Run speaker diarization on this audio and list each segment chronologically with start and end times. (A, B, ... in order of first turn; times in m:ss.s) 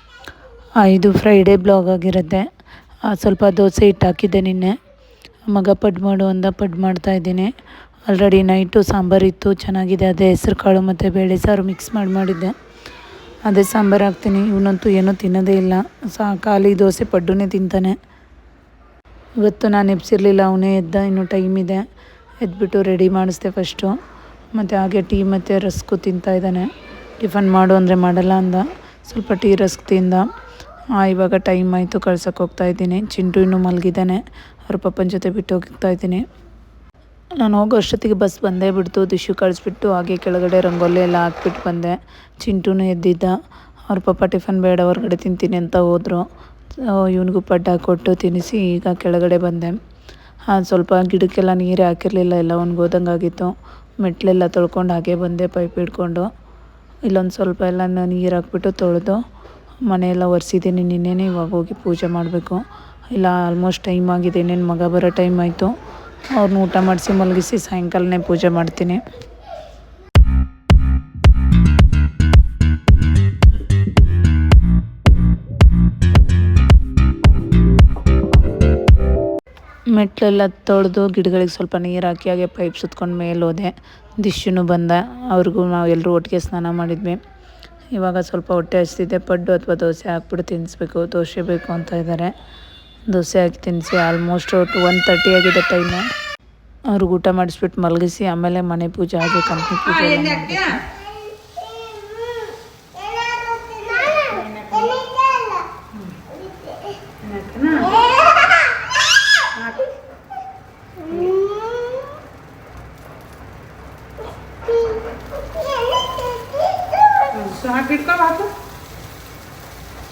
0:00.8-0:02.5 A
0:03.0-0:04.8 A
0:05.5-0:07.5 A
0:08.1-0:12.6 A
0:13.5-0:18.0 A
0:19.4-0:21.8 A
0:22.4-0:23.9 A
0:24.5-0:30.3 A
0:31.0-0:36.2 A
0:37.4-0:43.4 A
0:43.9-0:46.2 A
0:46.8-0:49.8 A
0:50.5-0:56.3 A
0:57.0-0:59.2 A
0:59.8-1:05.7 A
1:06.4-1:09.0 A
1:19.9-1:27.2 A
1:27.9-1:32.3 A
1:33.1-1:36.0 A
1:36.9-1:40.8 A
1:44.3-1:45.0 A
1:47.2-1:48.0 A
1:49.6-1:49.9 A
1:51.1-1:51.4 A
1:57.3-1:58.5 A